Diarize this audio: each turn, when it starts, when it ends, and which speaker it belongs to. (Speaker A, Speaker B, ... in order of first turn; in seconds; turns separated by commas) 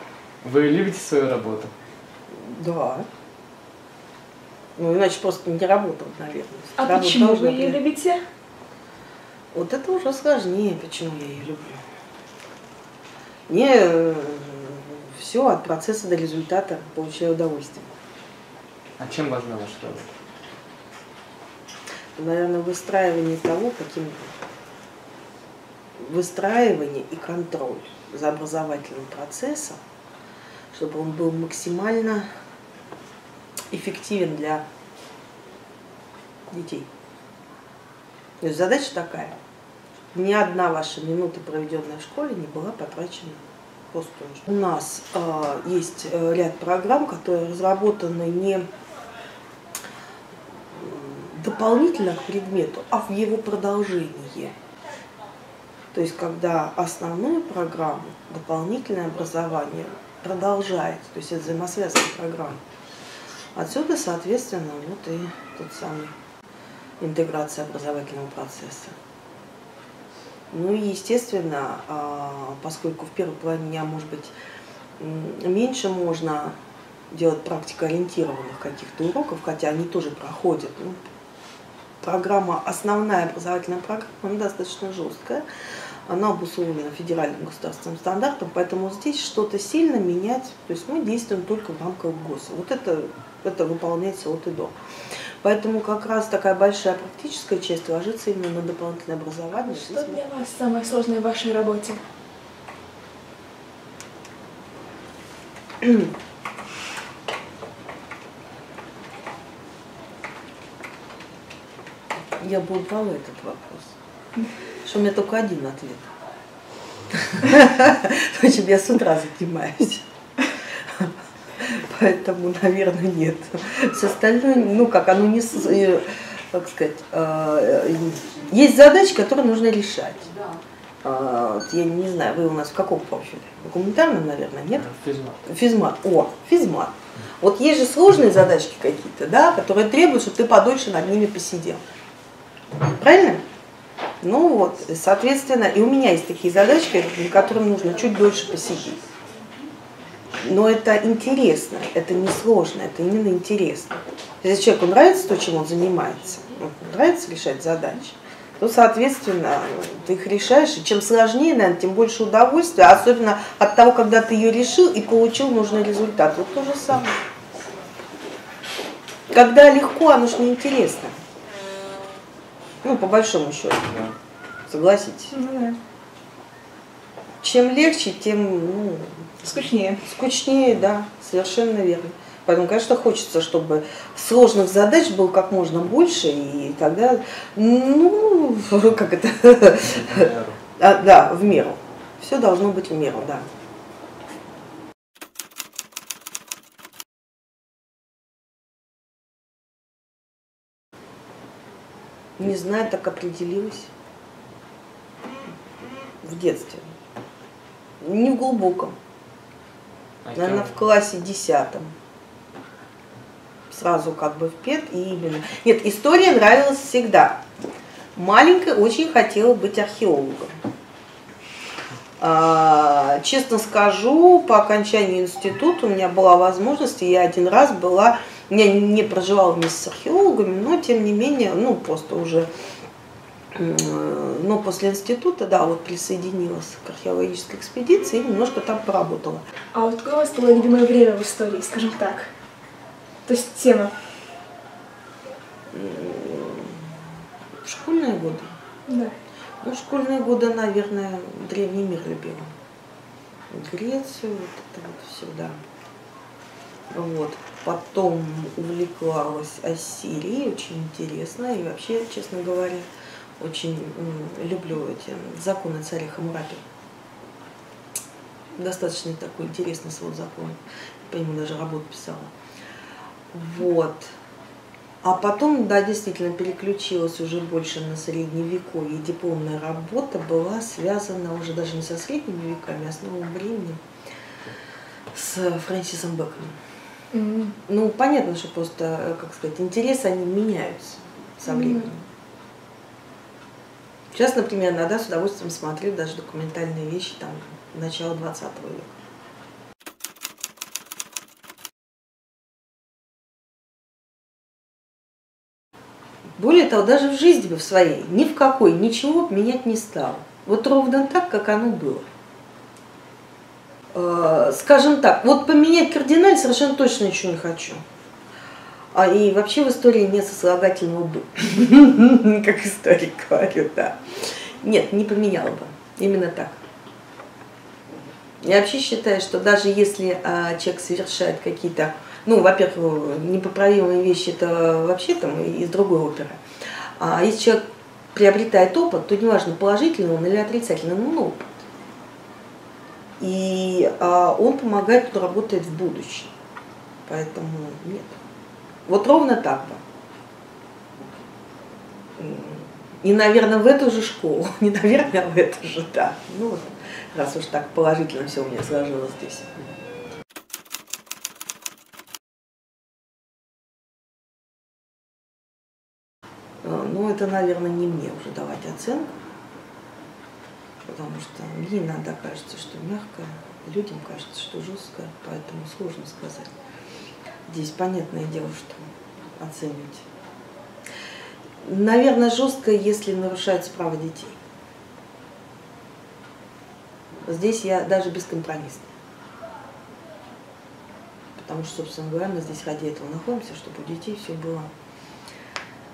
Speaker A: 0.4-1.7, Speaker B: 2.3-3.1, Speaker B: 4.8-7.8, Speaker C: 6.8-8.2, Speaker B: 9.5-11.8, Speaker B: 13.5-17.9, Speaker A: 19.0-20.1, Speaker B: 22.2-24.3, Speaker B: 26.0-29.8, Speaker B: 30.7-32.3, Speaker B: 33.7-34.6, Speaker B: 36.5-36.9, Speaker B: 38.4-39.4, Speaker B: 40.1-48.7, Speaker B: 50.7-54.5, Speaker B: 55.9-62.6, Speaker B: 63.5-66.1, Speaker B: 67.0-69.0, Speaker B: 70.5-74.3, Speaker B: 75.0-76.5, Speaker B: 77.1-81.0, Speaker B: 82.0-85.4, Speaker B: 86.1-94.8, Speaker B: 95.4-100.3, Speaker C: 99.5-102.0, Speaker B: 105.8-106.1, Speaker B: 112.4-114.0, Speaker B: 114.8-116.1, Speaker B: 117.1-130.4, Speaker B: 131.0-134.9, Speaker A: 134.8-135.4, Speaker B: 135.4-141.8, Speaker B: 142.8-143.4, Speaker B: 144.2-149.0, Speaker B: 150.4-167.2, Speaker B: 169.3-171.1, Speaker B: 172.8-174.1, Speaker B: 174.7-175.3, Speaker C: 175.3-175.8, Speaker B: 177.4-179.3, Speaker C: 179.4-180.0, Speaker B: 180.0-193.5, Speaker A: 189.8-190.6, Speaker B: 202.4-203.9, Speaker B: 206.2-206.9, Speaker B: 208.0-209.0, Speaker A: 210.2-210.8, Speaker B: 210.3-211.9, Speaker B: 213.7-217.4, Speaker B: 218.2-220.5, Speaker B: 222.2-232.5, Speaker B: 233.5-239.4, Speaker C: 239.7-242.3, Speaker C: 243.3-243.9, Speaker B: 245.7-246.8, Speaker B: 247.6-248.5, Speaker C: 248.9-249.2, Speaker B: 249.6-252.5, Speaker B: 253.5-255.6, Speaker B: 256.9-262.9, Speaker B: 263.4-266.6, Speaker B: 268.6-272.3, Speaker B: 273.3-274.1, Speaker B: 275.0-283.8, Speaker B: 285.1-286.6, Speaker C: 287.1-287.6, Speaker B: 287.7-292.1, Speaker C: 291.5-291.8, Speaker B: 294.1-299.0, Speaker B: 306.4-312.1, Speaker B: 313.9-317.8, Speaker B: 318.9-326.6, Speaker B: 328.4-336.4, Speaker B: 337.0-337.6, Speaker B: 338.1-341.6, Speaker B: 343.2-346.3, Speaker B: 347.1-348.2, Speaker B: 348.9-349.8, Speaker B: 352.2-359.5, Speaker B: 366.6-369.1, Speaker B: 370.9-376.5, Speaker B: 377.5-380.1, Speaker B: 381.6-384.4, Speaker B: 387.3-388.9, Speaker B: 391.4-394.7